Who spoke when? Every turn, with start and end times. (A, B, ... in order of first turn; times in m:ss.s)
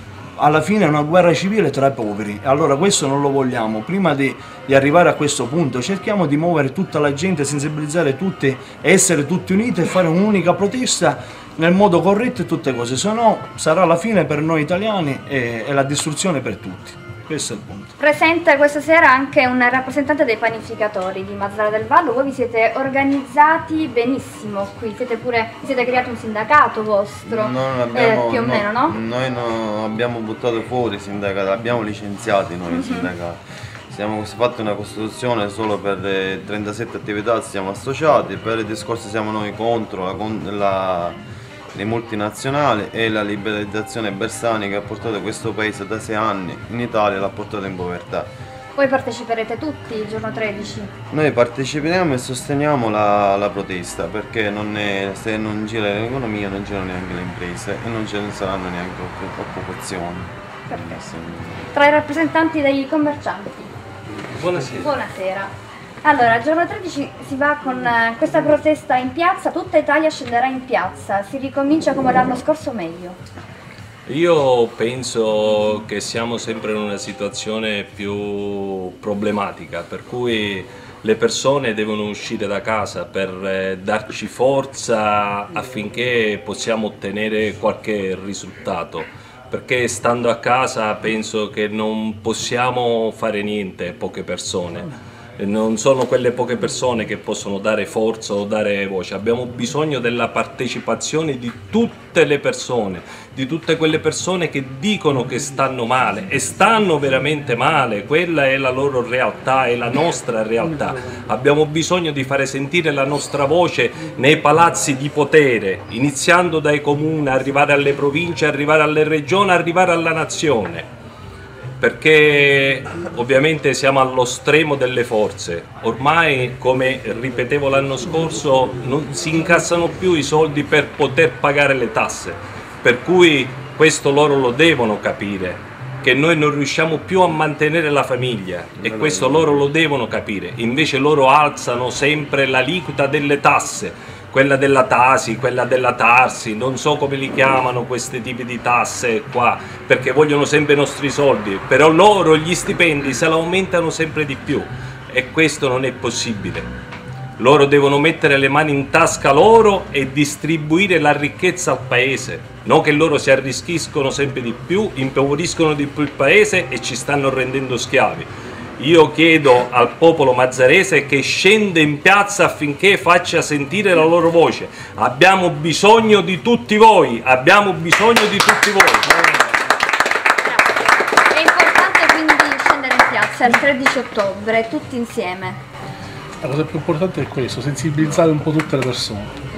0:00.4-0:17.9 A
0:18.0-0:29.0 B
0:27.2-0:41.2 C
0:32.7-0:33.1 B
0:41.7-0:48.3 C
0:48.7-0:50.9 B
0:51.1-1:01.6 C
1:00.7-1:01.0 B
1:01.7-1:03.7 B
1:04.3-1:04.9 D
1:04.7-1:05.5 B
1:06.0-1:13.2 B
1:14.1-2:00.9 D
2:01.8-2:36.7 D
2:37.4-2:59.2 D
3:01.3-3:05.6 B
3:06.4-3:09.3 E